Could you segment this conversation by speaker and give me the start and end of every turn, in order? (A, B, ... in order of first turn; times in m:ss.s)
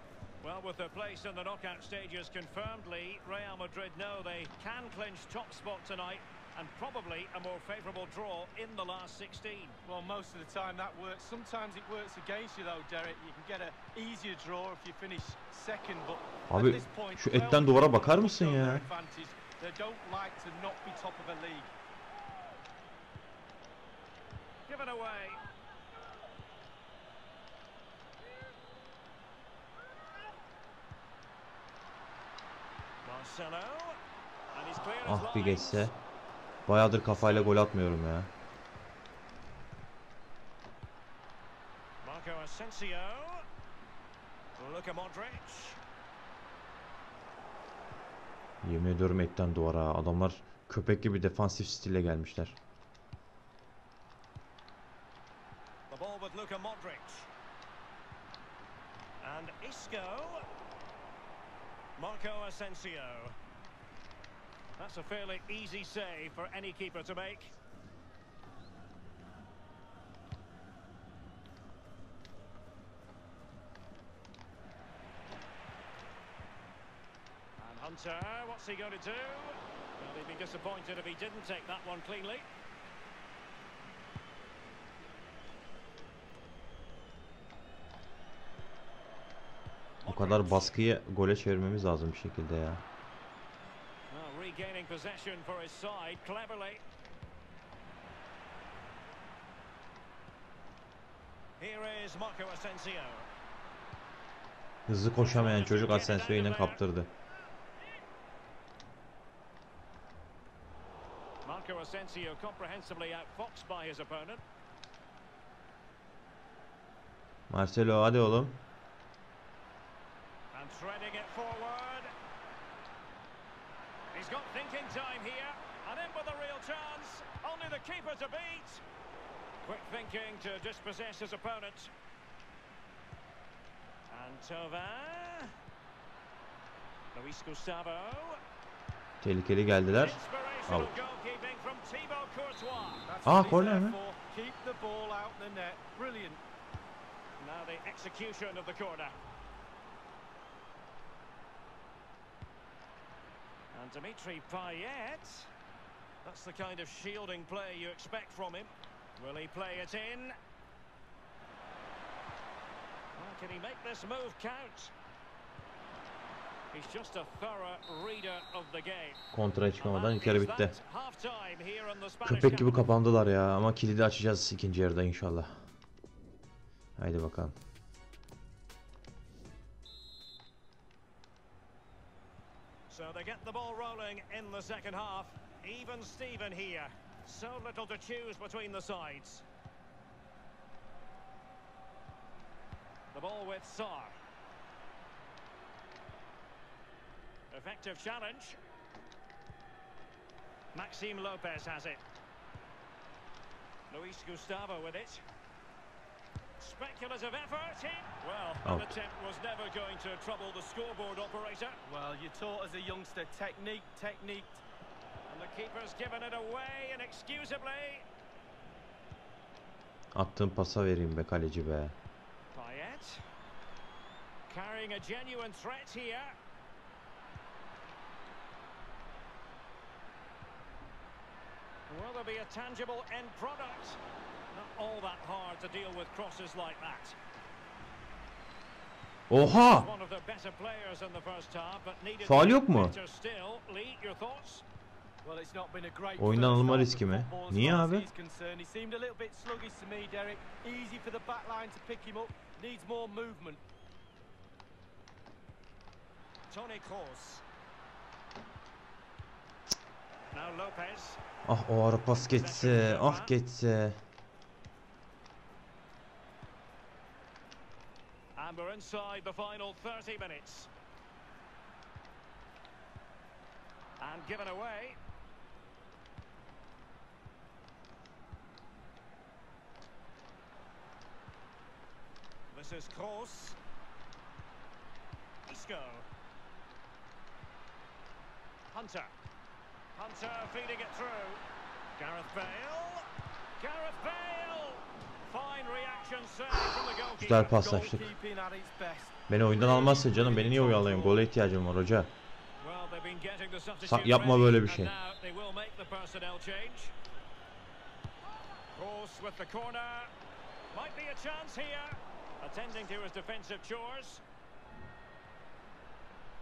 0:00.4-0:09.8 A
0:09.8-0:21.7 B
0:16.5-0:18.8 C
0:24.7-0:25.4 A
0:33.0-0:34.0 A
0:34.5-0:35.9 A
0:35.0-0:35.9 C
0:36.6-0:38.3 C
0:37.0-0:37.5 A
0:42.0-0:43.4 A
0:44.6-0:45.8 A
0:48.6-0:52.6 C
0:55.9-0:57.3 A
0:59.2-1:00.4 A
1:02.0-1:03.4 A
1:04.8-1:07.5 A
1:17.6-1:22.5 A
1:30.0-1:30.8 A
1:30.0-1:32.8 C
1:34.1-1:36.8 A
1:41.6-1:43.3 A
1:44.9-1:47.1 C
1:45.2-1:46.8 A
1:51.4-1:54.4 A
1:57.5-1:58.6 C
2:00.5-2:02.1 A
2:04.1-2:08.8 A
2:09.6-2:11.9 A
2:14.1-2:15.5 A
2:17.1-2:18.4 A
2:19.2-2:20.9 C
2:20.0-2:23.0 A
2:23.0-2:26.4 B
2:23.2-2:24.0 C
2:27.4-2:29.2 A
2:33.7-2:35.5 A
2:36.2-2:40.4 A
2:43.2-2:44.9 A
2:46.7-2:49.2 A
2:49.3-2:50.7 C
2:49.8-2:52.9 A
2:52.2-2:55.7 C
2:57.0-2:57.6 C
3:02.9-3:09.4 A
3:13.1-3:14.1 A
3:17.5-3:18.6 A
3:20.7-3:22.0 A
3:23.9-3:25.2 A
3:26.6-3:31.8 A
3:28.6-3:29.0 C
3:31.8-3:34.6 B
3:35.3-3:38.0 A
3:40.1-3:42.0 C
3:42.5-3:43.2 A
3:44.5-3:46.4 A
3:51.9-3:54.0 A
3:54.5-3:57.2 A
3:59.3-3:59.9 C
3:59.6-4:04.6 A
4:02.2-4:03.0 C
4:05.2-4:13.6 B
4:06.2-4:08.1 C
4:16.5-4:17.4 A
4:20.3-4:21.2 A
4:21.4-4:24.0 C
4:22.3-4:23.3 A
4:28.4-4:30.7 A
4:34.0-4:35.0 A
4:42.5-4:43.6 A
4:45.5-4:46.1 A
4:48.7-4:49.1 A
4:49.9-4:51.4 A
4:52.0-4:53.0 A
4:53.6-4:57.6 A
4:56.7-4:58.1 C
4:57.5-5:01.2 B
4:59.3-5:02.1 C
5:02.6-5:06.9 A
5:03.8-5:04.9 C
5:08.7-5:10.1 A
5:10.7-5:14.2 A